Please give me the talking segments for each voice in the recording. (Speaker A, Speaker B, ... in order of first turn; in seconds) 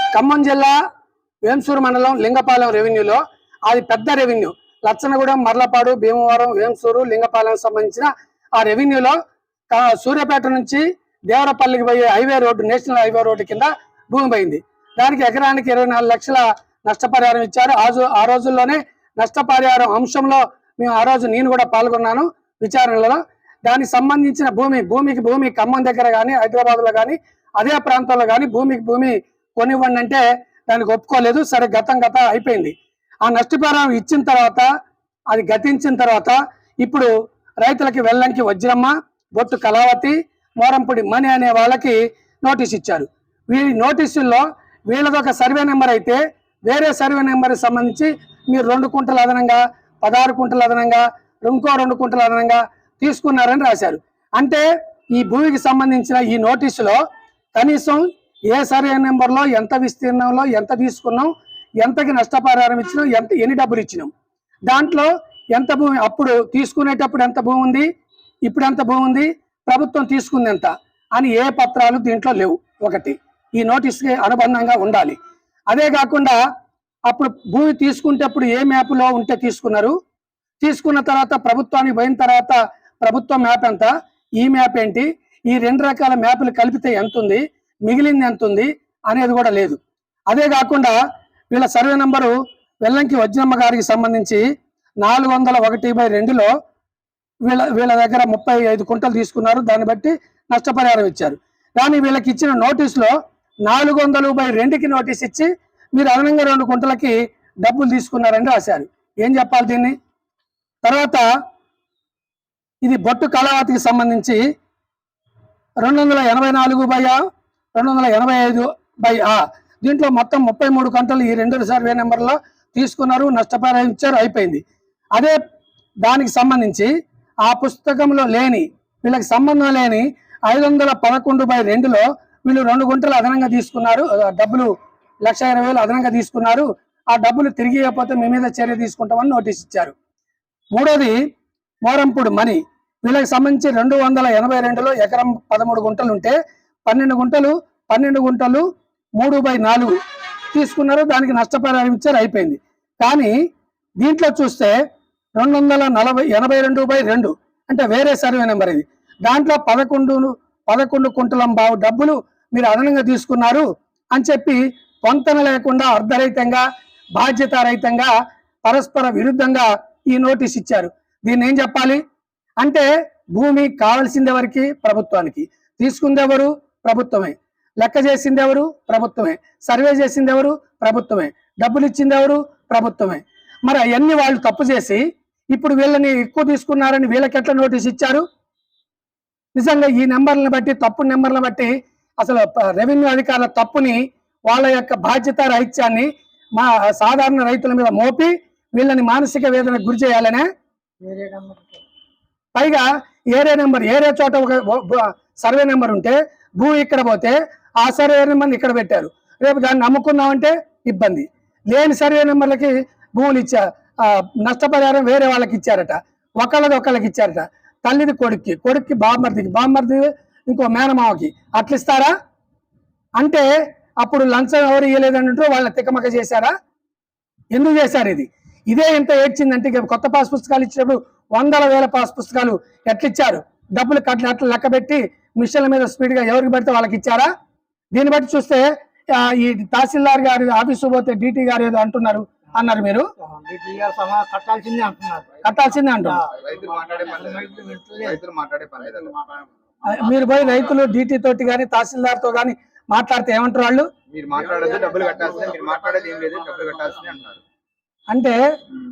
Speaker A: 0.1-0.8, 1.4-9.2, 9.7-32.7, 33.2-34.7, 35.3-37.1, 37.6-57.0, 57.5-64.1, 64.7-67.9, 68.5-75.2, 75.7-76.4, 77.1-79.9, 80.6-89.8, 90.3-91.0, 91.5-94.4, 95.0-96.5, 97.5-103.1, 103.7-109.9, 110.8-111.3, 112.8-114.4, 115.8-117.2, 117.8-124.6, 126.0-126.9, 127.4-134.7, 135.2-139.9, 140.7-141.2, 141.8-146.4, 146.9-148.7, 149.2-150.0, 150.5-153.3, 154.0-154.8, 155.4-166.6, 167.2-168.1, 168.6-172.0, 172.6-185.0, 185.5-188.2, 189.6-200.4, 202.6-222.1, 223.2-223.5, 224.0-226.5, 227.5-237.3, 237.9-243.1, 245.4-246.2, 249.9-253.9, 258.1-258.4
Speaker B: 201.0-201.8, 243.2-245.4, 246.0-246.3, 247.2-248.2
Speaker C: 246.3-249.2, 254.1-257.4